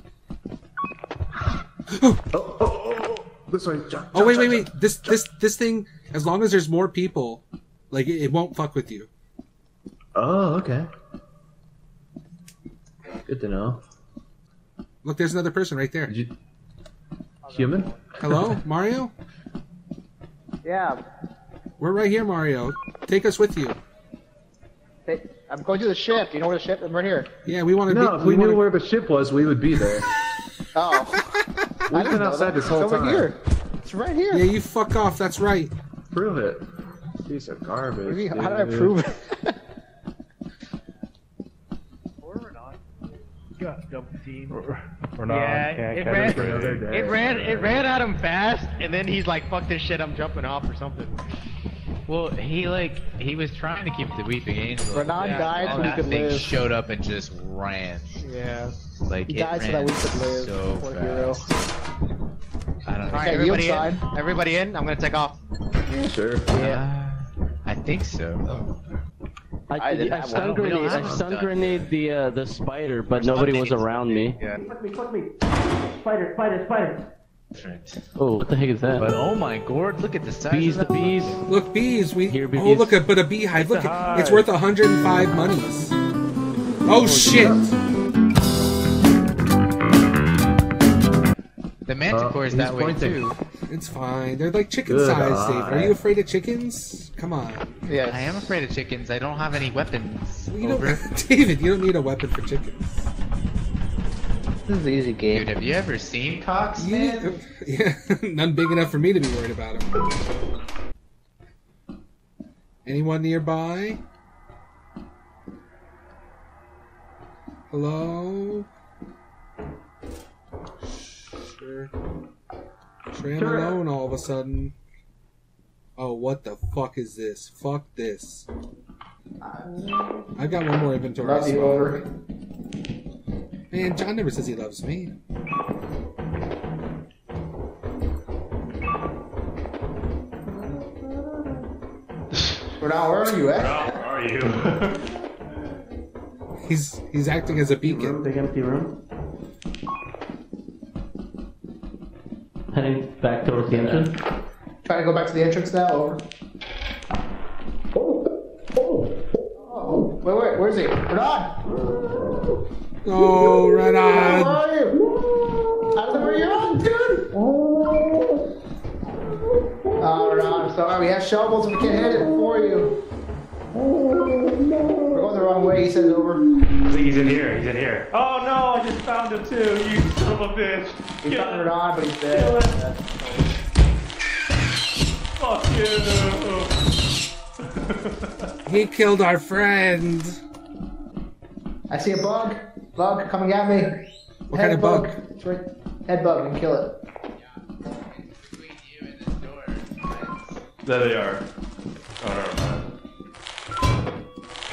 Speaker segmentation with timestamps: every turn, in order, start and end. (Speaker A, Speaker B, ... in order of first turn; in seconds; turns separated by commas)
Speaker A: 1.9-2.2, Speaker B: 2.3-5.1, Speaker A: 4.1-9.1, Speaker B: 10.1-10.9, Speaker B: 13.2-13.8, Speaker A: 15.0-16.1, Speaker B: 16.1-16.3, Speaker C: 17.4-18.1, Speaker B: 17.5-17.9, Speaker A: 18.2-19.1, Speaker C: 20.6-21.0, Speaker A: 21.8-23.8, Speaker C: 25.1-27.3, Speaker A: 27.4-28.6, Speaker B: 27.9-30.1, Speaker C: 30.7-31.3, Speaker B: 31.9-33.3, Speaker C: 31.9-34.5, Speaker A: 34.3-35.7, Speaker B: 36.1-36.6, Speaker B: 37.2-39.0, Speaker C: 38.0-39.5, Speaker D: 43.6-46.9, Speaker E: 45.3-51.2, Speaker B: 46.1-47.9, Speaker F: 52.1-58.2, Speaker C: 54.9-56.5, Speaker E: 55.2-55.9, Speaker E: 58.2-58.7, Speaker F: 59.1-61.5, Speaker C: 59.3-61.4, Speaker F: 62.8-63.7, Speaker E: 63.1-65.4, Speaker C: 63.2-64.0, Speaker B: 65.9-66.5, Speaker F: 66.5-68.5, Speaker C: 66.5-66.8, Speaker G: 69.7-75.3, Speaker C: 69.8-70.5, Speaker F: 70.3-71.9, Speaker F: 73.2-73.8, Speaker G: 75.9-77.0, Speaker F: 77.5-78.0, Speaker G: 78.2-79.1, Speaker F: 78.9-81.4, Speaker G: 80.5-81.4, Speaker A: 81.5-86.0, Speaker G: 82.3-83.0, Speaker D: 83.6-84.4, Speaker A: 86.8-87.7, Speaker B: 87.1-87.7, Speaker F: 91.8-93.3, Speaker B: 92.1-93.3, Speaker A: 93.7-97.8, Speaker B: 94.9-96.0, Speaker C: 97.8-98.2, Speaker F: 98.0-101.0, Speaker A: 100.5-103.1, Speaker C: 104.7-105.5, Speaker F: 105.3-107.3, Speaker A: 106.8-109.9, Speaker A: 112.8-114.0, Speaker A: 117.7-118.7, Speaker A: 120.9-121.9, Speaker A: 123.1-124.7, Speaker A: 126.0-128.5, Speaker C: 129.4-130.2, Speaker A: 130.3-132.1, Speaker C: 131.2-132.0, Speaker A: 133.7-135.2, Speaker C: 142.8-143.9, Speaker D: 143.5-145.0, Speaker A: 146.7-148.2, Speaker G: 147.8-148.9, Speaker G: 152.7-154.1, Speaker C: 154.8-156.2, Speaker C: 159.6-161.6, Speaker A: 163.0-164.6, Speaker C: 164.0-165.0, Speaker B: 165.0-166.3, Speaker C: 165.9-167.2, Speaker B: 167.3-168.3, Speaker C: 170.0-172.9, Speaker B: 173.9-175.2, Speaker C: 175.1-176.4, Speaker D: 176.9-181.6, Speaker C: 181.2-183.4, Speaker D: 185.4-186.7, Speaker A: 188.7-190.4, Speaker C: 191.9-194.0, Speaker A: 194.5-195.2, Speaker C: 194.5-196.9, Speaker F: 198.1-200.6, Speaker D: 200.8-201.5, Speaker D: 202.2-202.9